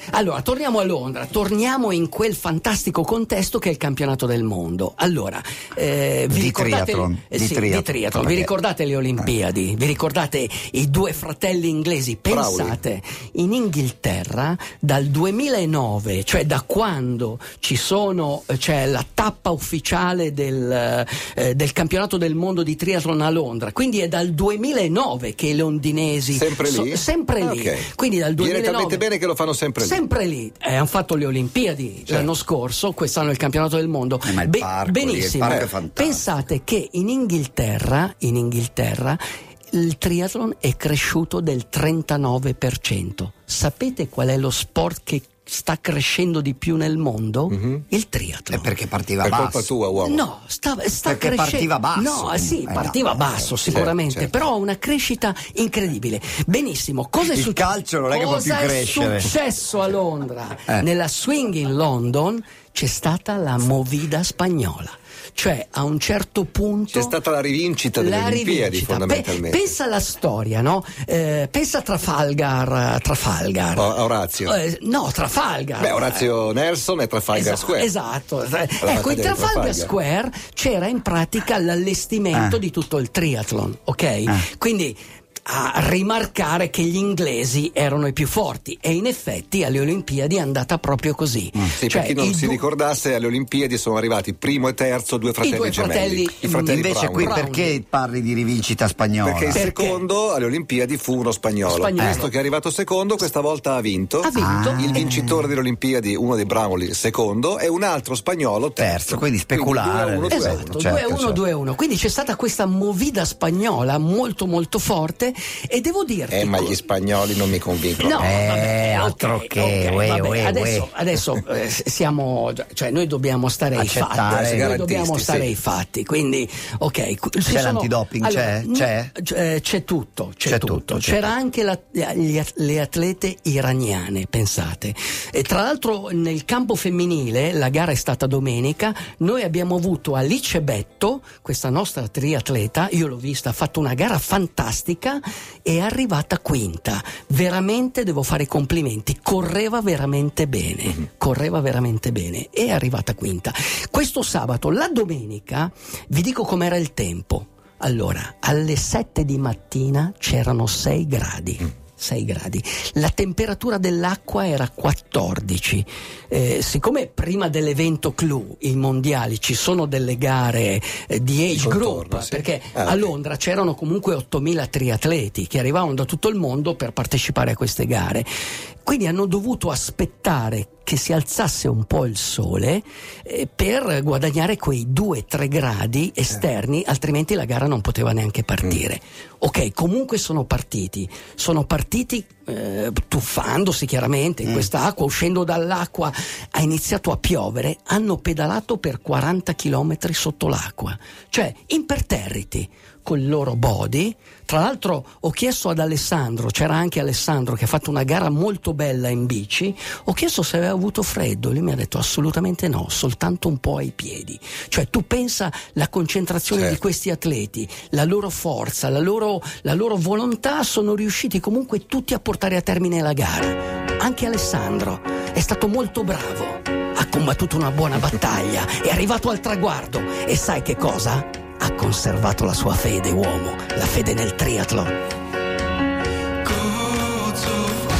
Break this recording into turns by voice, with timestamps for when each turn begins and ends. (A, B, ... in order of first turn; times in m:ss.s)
0:00.1-0:29.1 A
0:06.3-0:08.5 B
0:12.3-0:12.8 C
0:26.3-0:30.0 C
0:29.8-0:48.7 A
0:34.2-0:36.3 B
0:35.5-0:35.7 C
0:47.5-0:47.8 C
0:48.5-0:49.7 B
0:49.2-0:50.2 C
0:50.0-1:07.2 A
0:51.0-0:53.3 B
0:53.7-0:54.3 C
0:57.3-0:59.3 B
1:06.9-1:09.7 C
1:08.0-1:16.3 A
1:13.8-1:14.6 C
1:15.8-1:17.9 C
1:17.3-1:32.6 A
1:18.8-1:19.9 C
1:22.3-1:22.6 B
1:31.8-1:37.4 C
1:35.4-1:37.8 A
1:36.7-1:39.6 B
1:39.2-1:50.8 C
1:39.5-1:40.0 A
1:41.6-1:42.3 A
1:42.0-1:42.2 B
1:44.2-1:45.2 A
1:44.4-1:45.5 B
1:48.8-1:51.4 B
1:50.3-1:56.8 A
1:56.3-1:58.4 C
1:58.0-2:58.3 A
1:58.2-2:00.9 B
2:03.8-2:04.7 B
2:04.3-2:05.6 C
2:07.4-2:09.1 B
2:10.4-2:11.3 B
2:51.5-2:53.1 C
2:58.8-3:55.0 A
3:36.5-3:36.8 C
3:56.8-3:57.7 C